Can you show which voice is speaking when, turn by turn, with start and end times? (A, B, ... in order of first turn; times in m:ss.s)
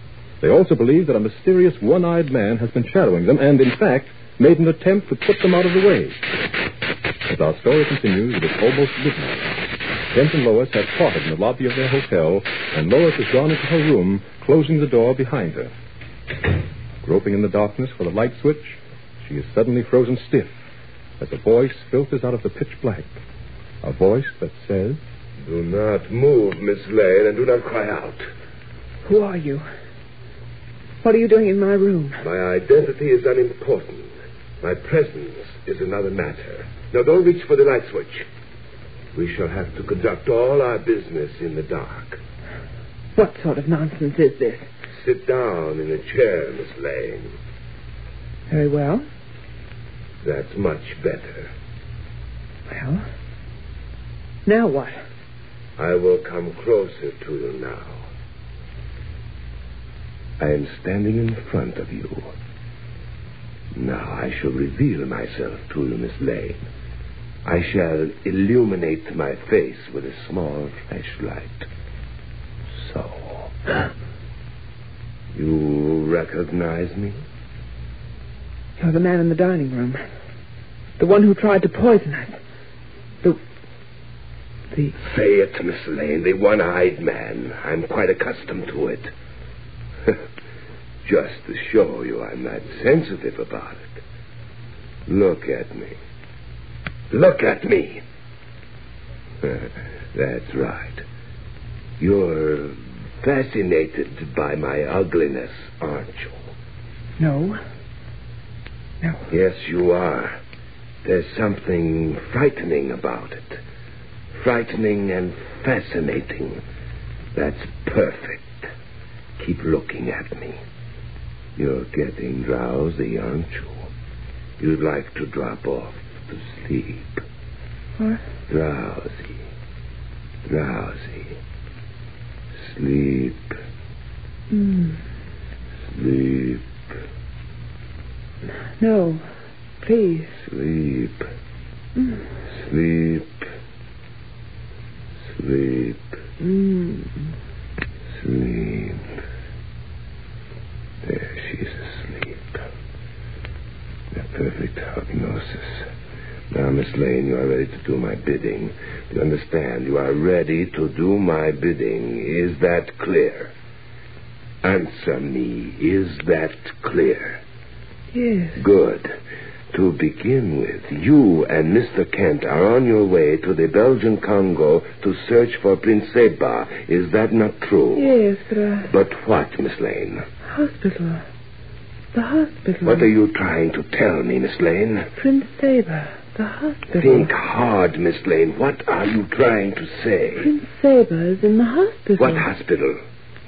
0:00.4-0:06.2 A
0:07.3-0:09.6 A
0:10.1-0:15.7 A
0:17.0-0:20.5 A
0:21.2-0:23.2 A
0:23.8-0:25.0 A
0:25.4-0:28.2 B
0:29.0-0:29.6 C
0:31.0-0:32.2 C
0:32.2-0:38.3 B
0:39.1-0:42.2 B
0:43.2-0:44.7 C
0:44.9-0:47.3 B
0:48.5-0:49.0 C
0:50.2-0:51.5 B
0:52.7-0:53.0 C
0:54.4-0:55.0 C
0:55.8-0:58.0 B
1:00.4-1:02.3 B
1:03.7-1:06.6 B
1:07.4-1:11.7 B
1:12.8-1:13.7 B
1:15.3-1:17.2 B
1:18.8-1:20.0 C
1:21.0-1:22.4 C
1:25.0-1:29.1 B
1:31.0-1:34.0 B
1:35.1-1:36.0 B
1:37.1-1:38.0 B
1:39.4-1:41.0 B
1:42.0-1:46.4 B
1:47.2-1:47.6 C
1:49.3-1:50.4 B
1:51.0-1:53.6 B
1:54.4-1:56.6 B
1:57.3-1:58.6 B
1:59.4-2:00.6 B
2:01.6-2:03.9 B
2:04.6-2:07.2 B
2:08.5-2:09.4 B
2:10.4-2:11.4 B
2:12.6-2:13.5 B
2:14.5-2:15.0 C
2:15.9-2:16.6 B
2:18.8-2:19.2 C
2:19.8-2:20.3 C
2:20.4-2:21.2 B
2:22.0-2:22.2 C
2:22.5-2:23.4 B
2:25.3-2:26.0 B
2:26.4-2:27.2 C
2:28.2-2:29.1 B
2:31.0-2:32.4 B
2:34.1-2:35.9 B
2:36.5-2:43.5 B
2:44.6-2:47.4 B
2:48.1-2:48.6 C
2:48.5-2:49.1 B
2:49.7-2:58.1 B
2:57.9-2:58.9 C
2:58.8-3:00.2 B
3:00.5-3:01.2 C
3:02.1-3:03.1 C
3:02.8-3:05.1 B
3:05.2-3:07.3 C
3:06.9-3:10.5 B
3:10.4-3:12.4 C
3:12.2-3:13.0 B